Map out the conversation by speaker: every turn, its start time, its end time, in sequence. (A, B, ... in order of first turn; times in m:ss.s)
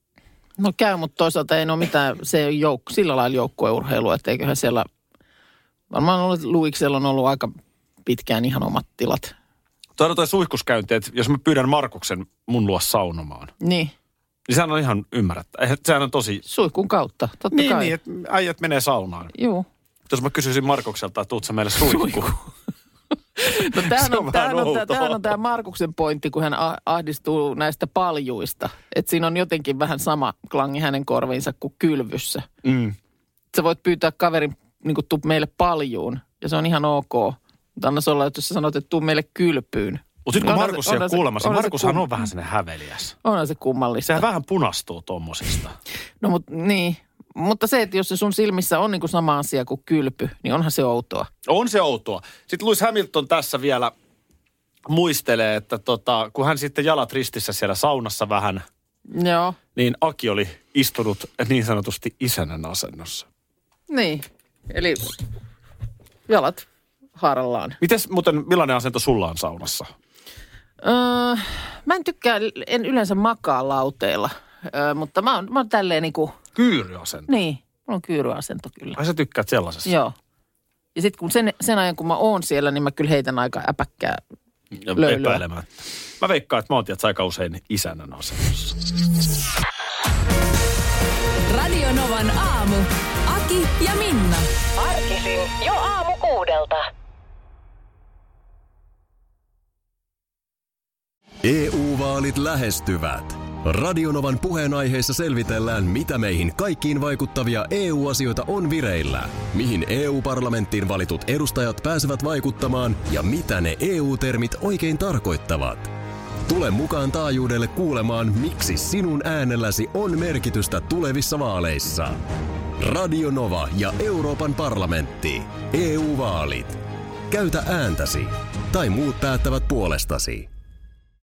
0:00.6-0:04.9 A
0:05.9-0:07.5 A
0:08.0-0:09.3 A
0:10.0-0:13.5 B
0:13.6-0:13.9 A
0:14.5-0:16.4 B
0:16.4-0:17.9 A
0:17.5-0:19.3 B
0:19.4-0:19.6 A
0:20.1-0:22.3 B
0:21.9-0:22.2 A
0:23.4-0:32.4 A
0:23.6-0:25.3 B
0:32.6-0:33.0 B
0:33.5-0:42.1 A
0:40.2-0:43.2 B
0:43.2-0:44.2 A
0:44.0-0:45.8 B
0:46.2-0:51.3 A
0:51.4-0:53.9 B
0:54.9-0:58.6 B
0:59.1-0:59.6 A
0:59.7-1:03.2 B
1:03.9-1:05.1 A
1:06.3-1:07.8 A
1:07.8-1:09.9 B
1:10.8-1:16.4 A
1:16.6-1:17.3 B
1:17.3-1:19.0 A
1:19.0-1:19.9 B
1:19.9-1:20.1 A
1:20.9-1:24.2 A
1:24.8-1:28.8 B
1:24.9-1:25.4 A
1:31.5-1:34.5 C
1:34.8-1:36.8 D
1:41.4-1:55.9 E
1:56.4-2:02.2 E
2:02.8-2:10.5 E